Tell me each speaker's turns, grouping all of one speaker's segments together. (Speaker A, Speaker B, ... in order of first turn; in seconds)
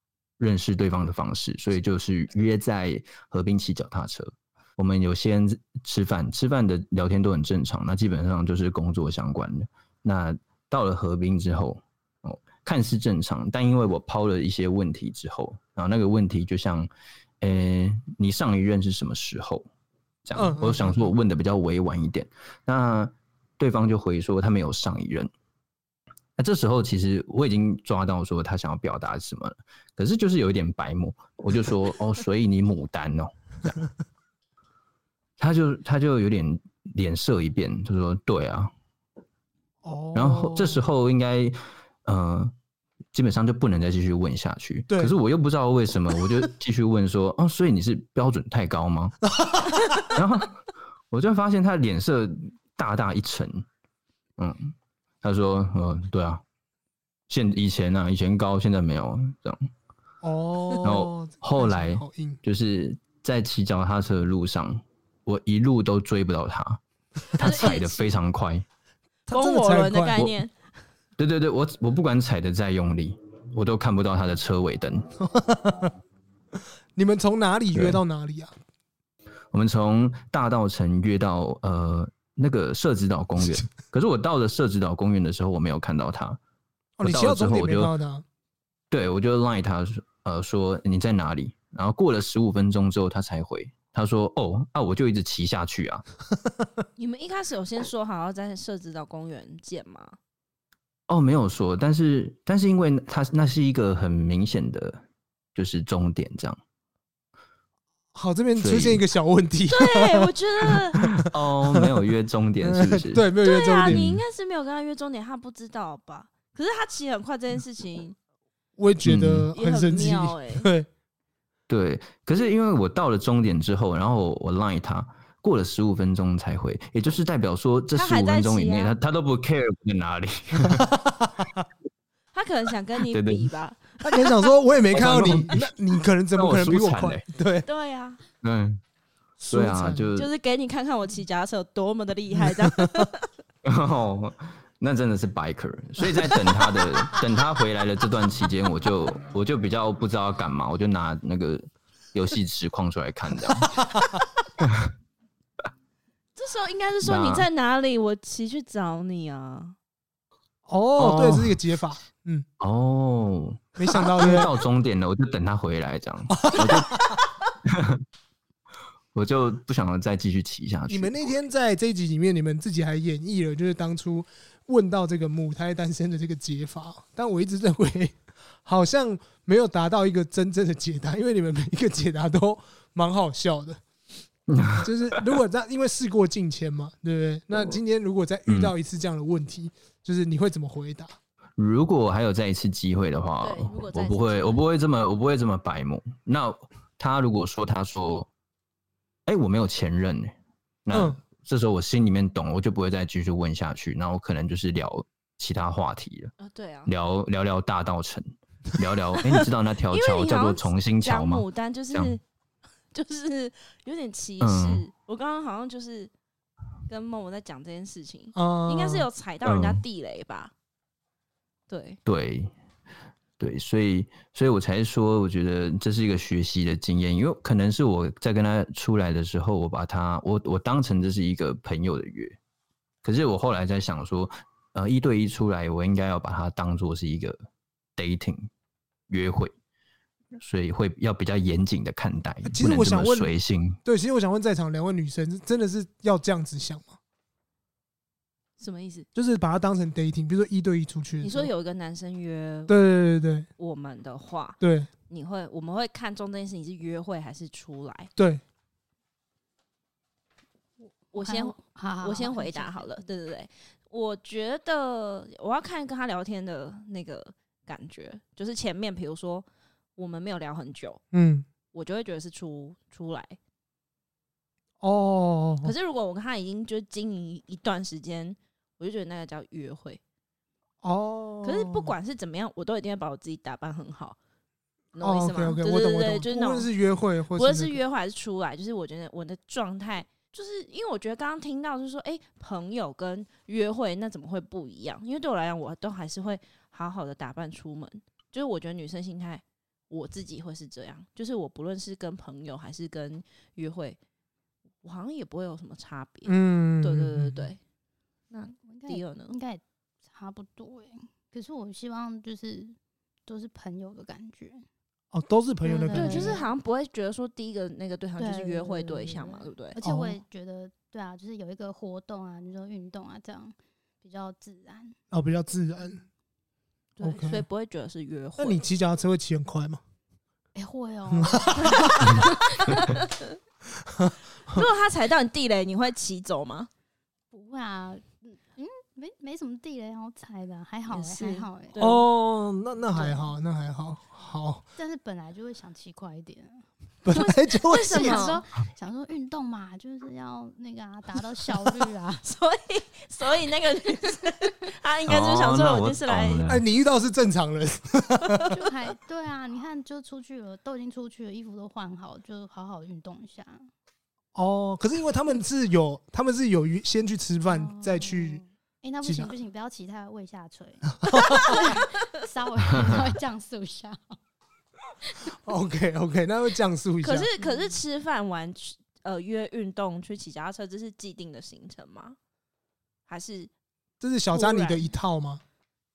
Speaker A: 0.4-16.9, 17.4-19.7, 20.2-25.3, 26.4-33.8, 35.4-38.7, 40.1-42.5, 43.1-49.2, 50.0-53.7, 54.4-56.4, 57.3-59.7, 60.8-66.8, 67.3-68.7, 71.2-75.1, 77.7-78.0, 79.5-86.4, 87.0-87.9, 88.9-96.0, 101.1-105.0, 105.5-106.6, 108.6-109.0, 111.2-113.2, 113.9-114.2, 119.0-119.5, 121.7-131.0, 133.0-133.5, 134.9-135.7, 136.3-137.2, 138.4-138.8, 139.5-140.3, 143.6-153.9, 154.6-154.9, 157.0-157.5, 161.0-161.5, 162.6-167.0, 167.7-168.0, 169.1-171.1, 184.5-184.9, 188.5-188.7, 191.6-198.3, 199.3-200.3, 200.8-206.3, 206.9-212.2, 214.4-214.8, 219.4-219.8, 222.1-222.5, 223.4-232.4, 233.0-237.4, 238.0-238.5, 239.1-239.5, 240.4-243.8, 355.1-356.6
Speaker B: 20.4-21.1, 39.8-40.9, 44.9-45.1, 49.4-49.8, 60.2-62.4, 69.3-70.2, 75.2-75.9, 77.0-78.5, 87.0-88.2, 108.1-112.0, 112.6-114.1, 118.8-120.9, 130.6-131.6, 134.0-137.7, 139.4-140.1, 142.4-143.1, 153.6-154.0, 160.7-162.5, 163.8-164.6, 166.3-167.2, 170.9-183.8, 184.8-191.1, 200.9-201.2, 218.3-219.1, 242.4-243.3, 243.8-247.0, 249.2-251.5, 252.7-253.5, 254.6-254.9, 258.2-258.4, 271.1-271.5, 274.8-275.7, 280.8-281.9, 285.0-287.8, 306.3-307.5, 315.1-316.4, 319.8-320.2, 325.1-326.0, 327.0-327.5, 328.4-329.8, 331.1-332.2, 333.8-334.7, 341.8-344.6, 347.1-348.4, 356.5-358.5, 364.4-368.4, 369.0-369.3, 371.0-371.6, 375.3-377.3, 384.0-385.4
Speaker C: 67.3-68.1, 69.3-70.5, 97.0-100.2, 109.7-111.1, 113.4-118.2, 119.5-120.7, 127.9-128.9, 132.3-134.5, 137.7-138.2, 140.2-143.3, 156.4-159.8, 193.4-194.6, 206.4-206.9, 209.2-212.2, 212.9-216.1, 216.9-220.5, 221.7-222.0, 248.6-249.1, 251.2-252.8, 253.6-258.1, 261.1-271.0, 271.7-273.4, 275.6-280.0, 281.4-284.2, 284.9-286.7, 287.4-304.0, 304.8-307.6, 308.3-309.4, 315.9-319.8, 327.0-328.6, 331.6-333.4, 334.5-336.7, 340.9-342.0, 347.1-348.4, 352.2-356.4, 358.3-358.5, 377.0-382.2, 383.1-383.5, 384.3-384.9
Speaker D: 261.2-263.0, 308.4-314.7, 315.6-316.5, 318.2-324.9, 330.6-332.9, 337.3-341.9, 344.8-346.7, 347.7-352.3, 354.1-354.5, 358.5-363.7, 367.5-374.1, 377.4-377.7